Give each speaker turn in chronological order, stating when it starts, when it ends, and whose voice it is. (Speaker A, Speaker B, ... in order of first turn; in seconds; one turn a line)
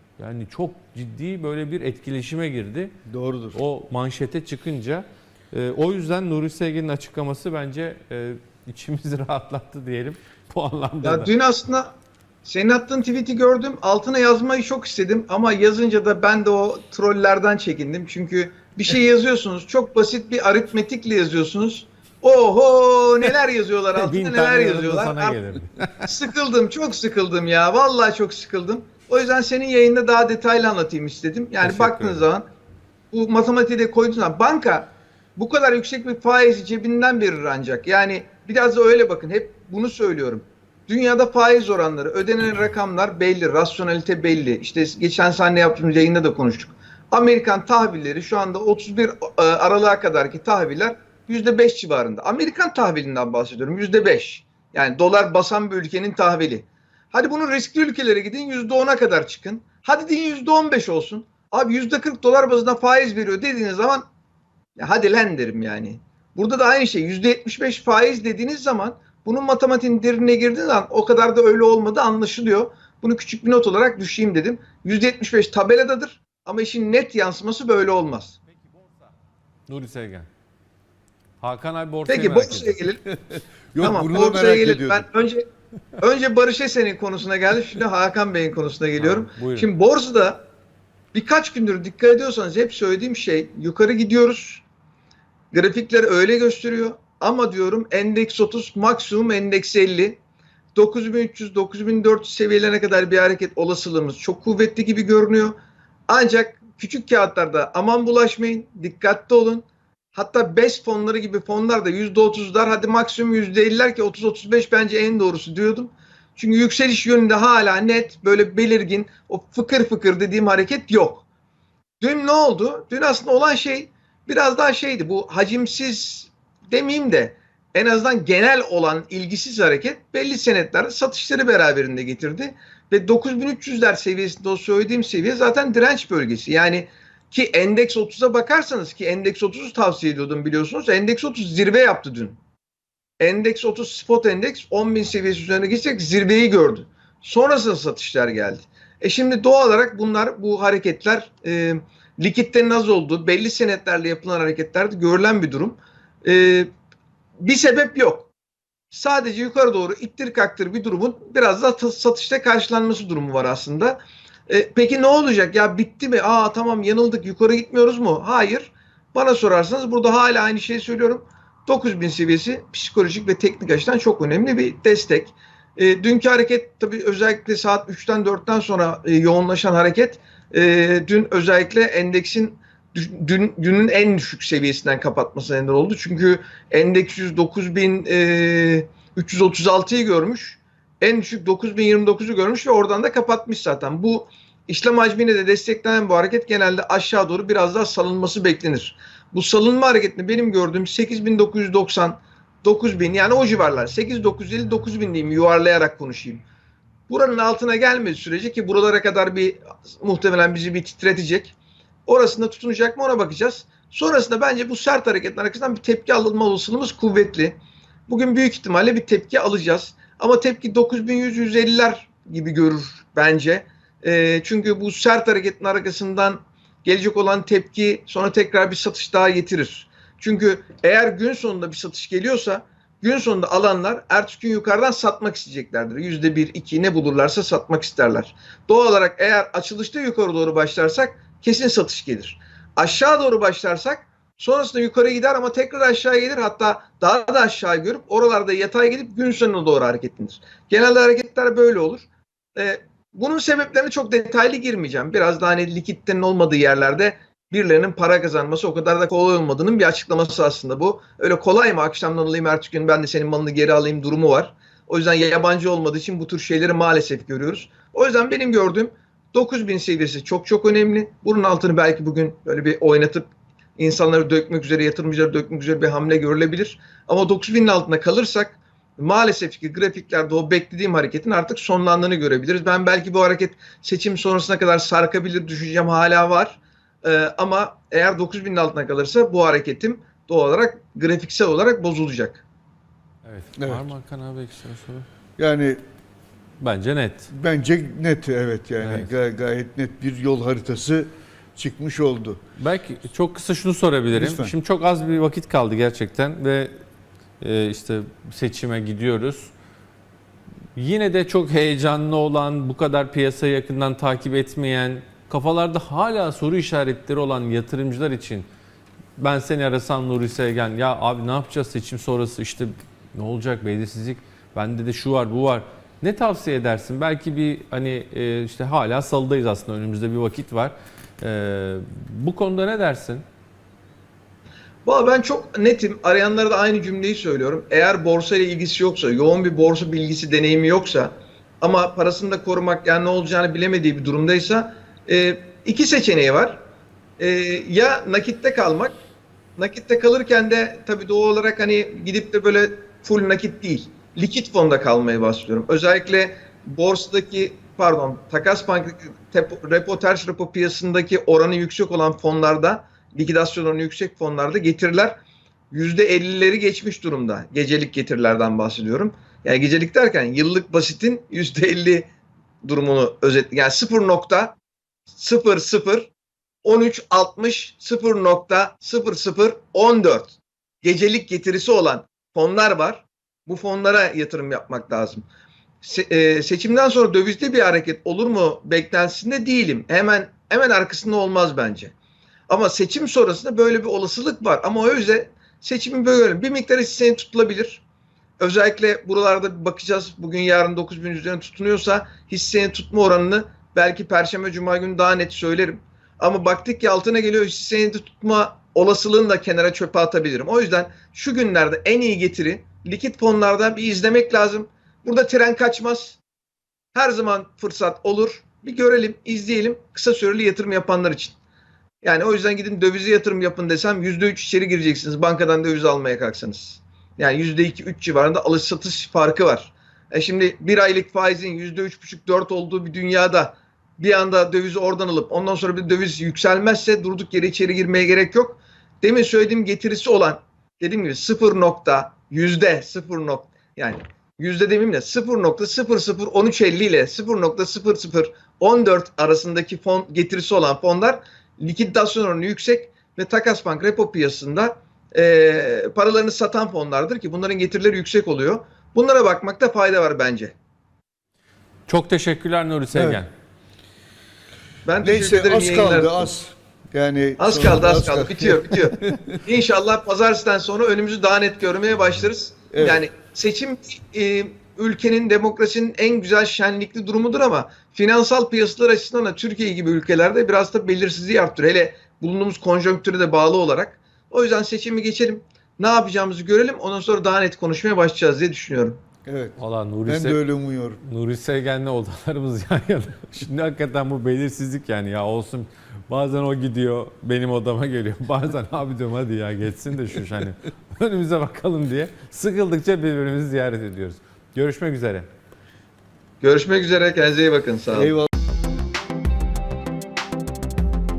Speaker A: 0.2-2.9
Speaker B: 3.1-3.6
Speaker A: 3.5-11.3
Speaker C: 11.0-25.4
Speaker A: 23.9-26.1
Speaker C: 26.0-32.4
Speaker A: 31.6-32.2
Speaker C: 33.1-64.0
Speaker C: 64.8-78.3
Speaker A: 78.7-79.1
Speaker A: 79.7-80.3
Speaker A: 81.4-82.8
Speaker C: 82.0-83.0
Speaker B: 83.3-85.1
Speaker C: 83.8-85.4
Speaker C: 86.0-90.4
Speaker A: 89.0-89.7
Speaker C: 91.1-94.6
Speaker C: 95.5-100.2
Speaker C: 100.7-105.5
Speaker C: 106.1-121.2
Speaker C: 122.0-142.4
Speaker C: 143.2-156.7
Speaker C: 157.4-158.3
Speaker C: 158.9-206.4
Speaker C: 207.1-211.5
Speaker C: 212.1-217.6
Speaker C: 218.1-292.4
Speaker A: 293.2-295.1
Speaker B: 293.6-293.8
Speaker B: 295.4-295.8
Speaker A: 296.6-297.3
Speaker B: 297.3-302.4
Speaker A: 298.8-299.1
Speaker A: 302.6-306.7
Speaker B: 304.1-304.5
Speaker A: 307.4-309.5
Speaker A: 310.8-318.5
Speaker A: 319.2-333.2
Speaker C: 334.9-346.6
Speaker C: 347.2-349.0
Speaker C: 349.6-365.2
Speaker C: 365.7-372.1
Speaker C: 372.6-374.6
Speaker C: 375.1-376.1
Speaker C: 376.6-385.2
Speaker C: 385.8-391.9
Speaker C: 392.5-397.8
Speaker C: 398.4-416.2
Speaker C: 416.9-421.4
Speaker C: 422.0-460.5
Speaker A: 461.9-463.3
Speaker B: 462.9-463.2
Speaker C: 464.8-466.3
Speaker B: 465.0-469.4
Speaker C: 467.4-489.0
Speaker B: 472.7-473.0
Speaker B: 489.2-491.0
Speaker A: 489.6-490.4
Speaker A: 491.0-505.3
Speaker C: 506.4-508.2
Speaker B: 507.9-508.3